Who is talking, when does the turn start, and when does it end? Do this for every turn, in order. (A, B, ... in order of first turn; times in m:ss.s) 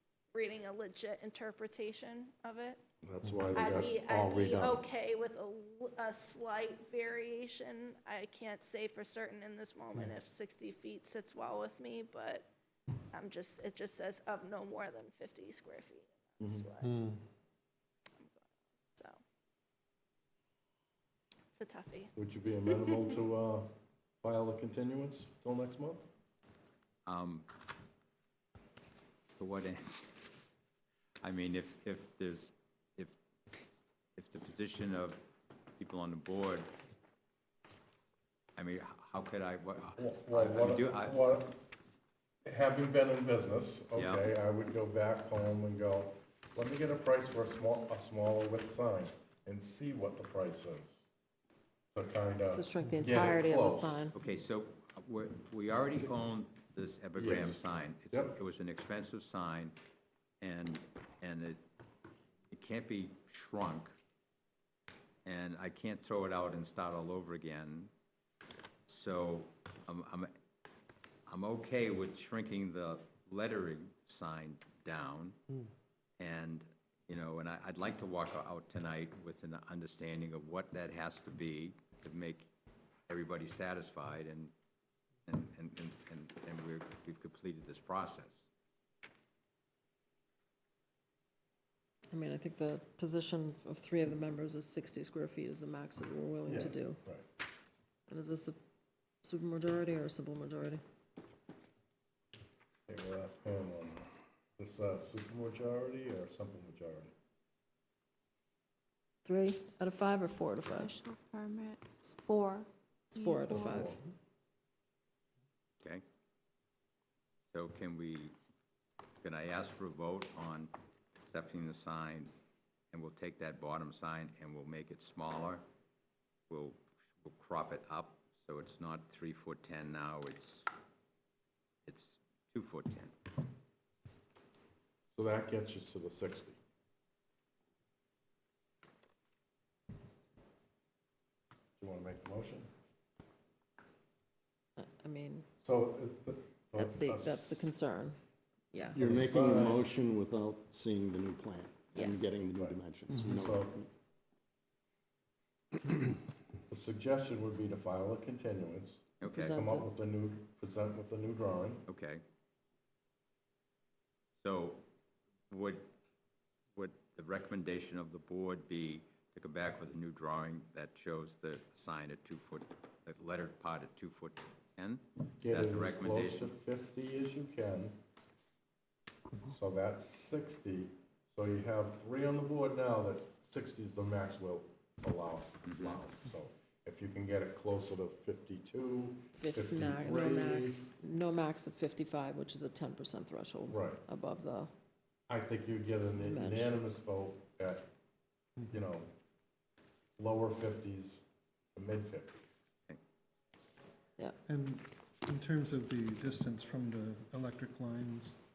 0:00.3-0:02.8 A
0:03.0-0:04.8 B
0:03.5-0:12.5 A
0:13.1-0:16.9 A
0:16.4-0:16.7 B
0:16.8-0:17.2 C
0:21.5-0:22.1 A
0:22.2-0:23.7 B
0:24.2-0:26.1 B
0:27.1-0:27.5 D
0:29.4-0:30.2 D
0:31.2-0:33.2 D
0:34.2-0:35.2 D
0:35.8-0:36.7 D
0:38.6-0:41.2 D
0:40.0-0:41.6 B
0:42.4-0:51.0 B
0:44.0-0:44.3 D
0:51.9-0:54.1 B
0:52.5-0:54.2 E
0:54.2-0:59.8 D
0:57.2-0:58.4 B
1:00.4-1:01.6 D
1:02.5-1:04.0 D
1:05.2-1:07.9 D
1:08.9-1:10.3 D
1:11.3-1:15.4 D
1:16.2-1:22.5 D
1:23.1-1:24.5 D
1:25.3-1:28.4 D
1:32.1-1:37.0 E
1:36.5-1:37.2 B
1:38.1-1:38.6 E
1:39.2-1:40.8 E
1:42.9-1:47.1 B
1:49.2-1:50.9 E
1:50.6-1:53.8 F
1:53.1-1:54.0 E
1:53.6-1:54.0 B
1:57.5-1:58.4 D
1:59.2-2:00.7 D
2:01.3-2:02.3 D
2:02.9-2:05.6 D
2:06.5-2:10.7 D
2:11.9-2:13.1 D
2:15.1-2:16.6 B
2:21.8-2:22.7 B
2:24.8-2:25.5 E
2:25.6-2:27.7 B
2:26.8-2:28.2 E
2:28.7-2:29.0 E
2:29.0-2:29.8 B
2:29.0-2:33.9 G
2:33.3-2:33.8 B
2:36.7-2:41.8 B
2:39.2-2:39.6 D
2:39.2-2:39.9 E
2:41.9-2:42.2 D
2:44.4-2:44.8 D
2:45.5-2:45.9 D
2:46.8-2:56.5 D
2:55.4-2:58.0 B
2:59.5-3:10.9 B
3:05.6-3:06.0 D
3:09.4-3:14.7 E
3:13.7-3:14.0 B
3:15.3-3:17.9 B
3:16.2-3:16.8 E
3:18.7-3:19.1 B
3:20.2-3:21.2 B
3:21.8-3:22.4 B
3:24.5-3:28.4 C